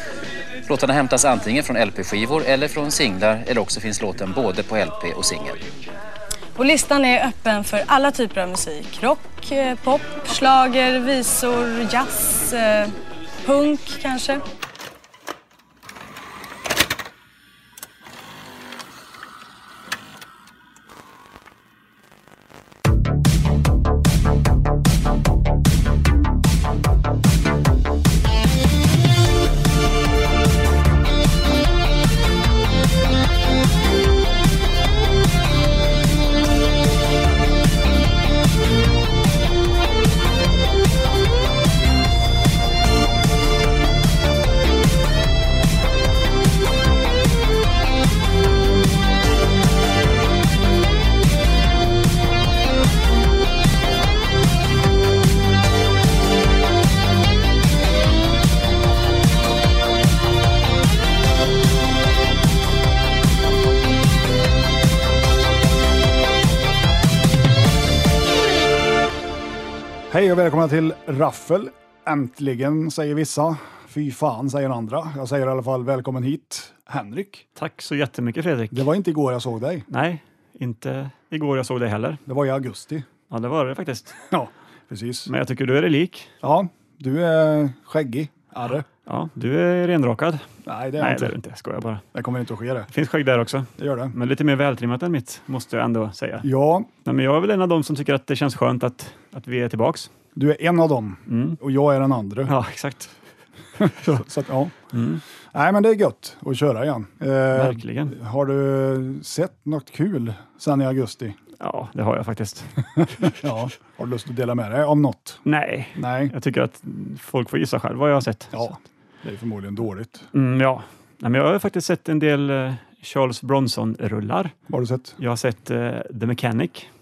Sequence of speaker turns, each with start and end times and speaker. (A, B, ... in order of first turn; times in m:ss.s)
0:00.7-0:05.6 A
0:06.6-0:14.4 B
1:10.1-1:17.4 C
1:17.6-1:18.9 D
1:18.7-1:19.9 C
1:19.9-1:22.2 D
1:22.3-1:23.0 C
1:23.3-1:24.2 D
1:24.3-1:25.3 C
1:25.2-1:26.3 D
1:26.4-1:28.8 C
1:29.0-1:30.4 D
1:30.6-1:31.4 C
1:31.0-1:32.0 D
1:32.1-1:32.9 C
1:32.9-1:36.5 D
1:33.8-1:34.1 C
1:36.4-1:36.9 C
1:37.0-1:40.1 D
1:40.4-1:42.5 C
1:41.3-1:41.6 D
1:42.5-1:43.1 D
1:43.8-1:44.7 C
1:43.8-1:44.2 D
1:44.9-1:45.2 D
1:45.5-1:51.4 C
1:47.5-1:48.1 D
1:51.6-1:53.3 D
1:53.0-1:55.4 C
1:55.4-1:58.7 D
1:55.9-1:56.3 C
1:58.5-2:00.3 C
2:00.3-2:04.5 D
2:04.7-2:05.2 C
2:05.2-2:06.9 D